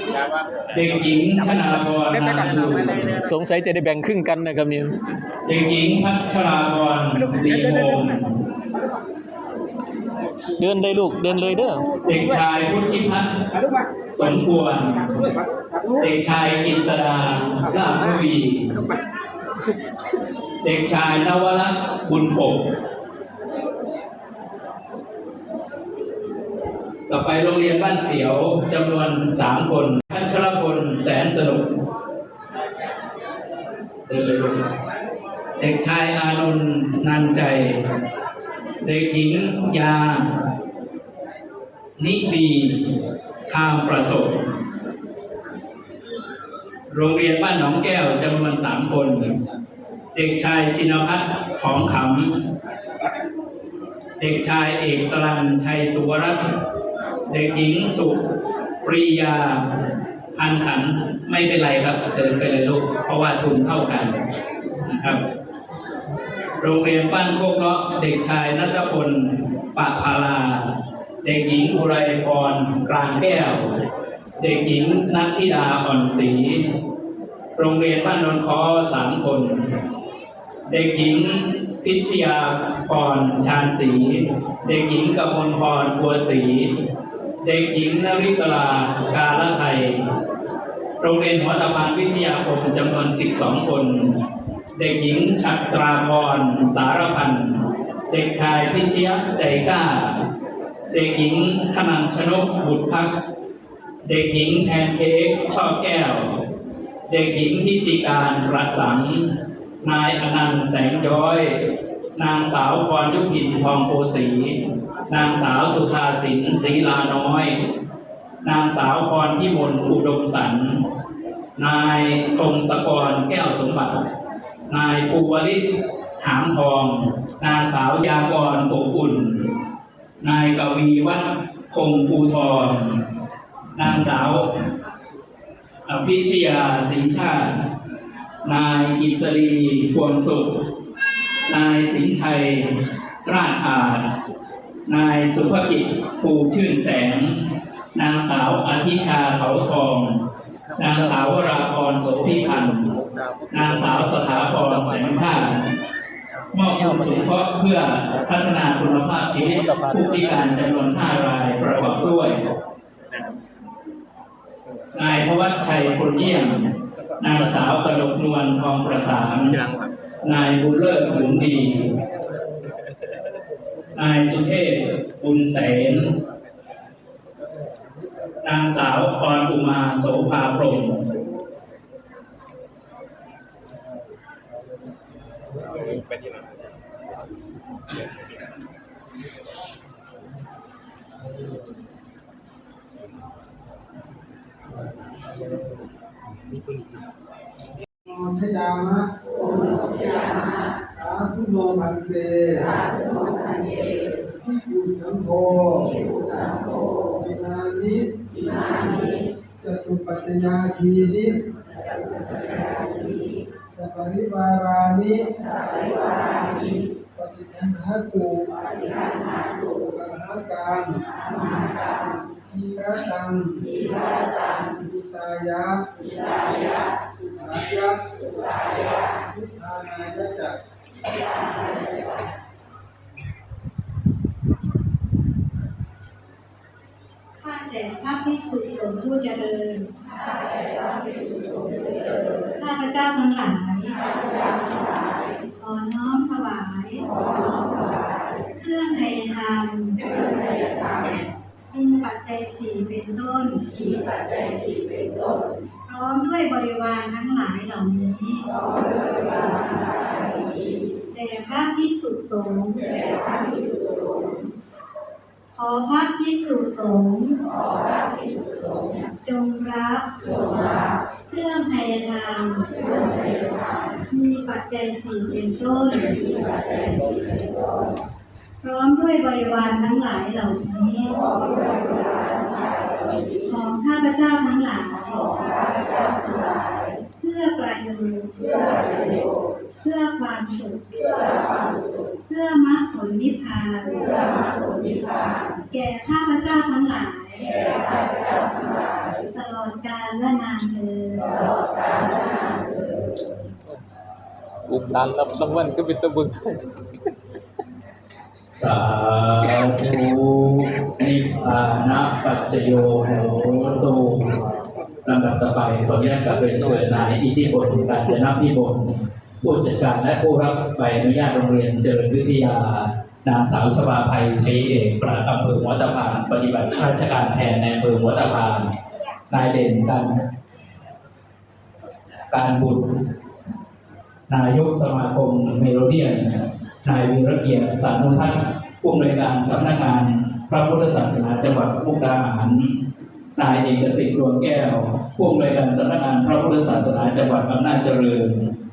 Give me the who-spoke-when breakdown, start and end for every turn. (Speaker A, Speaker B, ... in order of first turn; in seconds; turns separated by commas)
Speaker A: 0.7-3.1, Speaker B: 3.2-4.9, Speaker A: 5.4-8.4, Speaker B: 10.6-11.9, Speaker A: 12.0-13.3, Speaker A: 14.1-15.2, Speaker A: 16.0-18.7, Speaker A: 20.6-22.6, Speaker A: 27.1-31.7, Speaker A: 34.1-34.7, Speaker A: 35.6-37.8, Speaker A: 38.8-40.2, Speaker A: 42.0-42.8, Speaker A: 43.5-44.4, Speaker A: 46.9-49.3, Speaker A: 50.1-52.4, Speaker A: 54.2-56.4, Speaker A: 57.3-58.2, Speaker A: 58.8-59.6, Speaker A: 60.3-64.2, Speaker A: 64.8-65.2, Speaker A: 66.6-70.7, Speaker A: 71.2-73.7, Speaker A: 74.4-76.6, Speaker A: 77.5-79.6, Speaker A: 80.7-86.7, Speaker A: 87.4-90.0, Speaker A: 91.0-94.1, Speaker A: 94.8-100.2, Speaker A: 100.9-103.2, Speaker A: 104.0-106.3, Speaker A: 107.1-111.6, Speaker A: 112.1-114.6, Speaker A: 115.1-117.5, Speaker A: 118.4-120.8, Speaker A: 121.5-124.0, Speaker A: 124.7-125.6, Speaker A: 126.2-129.5, Speaker A: 130.2-133.0, Speaker A: 133.7-134.4, Speaker A: 135.8-137.6, Speaker A: 138.4-140.5, Speaker A: 141.5-142.7, Speaker A: 143.2-144.1, Speaker A: 144.8-147.4, Speaker A: 147.9-150.2, Speaker B: 150.7-151.2, Speaker A: 150.8-152.9, Speaker B: 152.5-155.2, Speaker A: 153.5-155.6, Speaker A: 156.5-162.4, Speaker B: 156.8-157.2, Speaker B: 159.6-160.4, Speaker A: 164.9-166.6, Speaker A: 167.2-169.6, Speaker A: 170.2-171.9, Speaker A: 173.9-176.1, Speaker A: 178.4-181.0, Speaker C: 198.1-199.1, Speaker C: 200.9-202.8, Speaker C: 204.4-205.9, Speaker C: 207.1-208.0, Speaker C: 209.6-211.3, Speaker C: 213.7-215.2, Speaker C: 217.1-218.4, Speaker C: 219.9-221.0, Speaker C: 222.4-223.8, Speaker C: 224.7-225.9, Speaker C: 227.0-228.0, Speaker C: 229.3-230.6, Speaker D: 237.4-239.9, Speaker D: 242.6-244.0, Speaker D: 245.6-247.1, Speaker D: 248.6-250.1, Speaker D: 251.7-253.6, Speaker D: 255.9-258.5, Speaker D: 261.1-262.9, Speaker D: 265.5-267.4, Speaker D: 269.2-270.1, Speaker D: 271.3-272.7, Speaker D: 274.1-276.2, Speaker D: 278.6-281.2, Speaker D: 283.4-285.3, Speaker D: 287.2-288.4, Speaker D: 289.8-291.1, Speaker D: 292.2-294.1, Speaker D: 295.7-297.5, Speaker D: 299.2-301.3, Speaker B: 304.7-306.6, Speaker A: 308.6-314.2, Speaker A: 315.0-318.9, Speaker A: 319.4-328.7, Speaker A: 329.3-330.1, Speaker A: 332.3-332.8, Speaker A: 334.3-336.2, Speaker A: 336.8-342.7, Speaker A: 343.4-348.4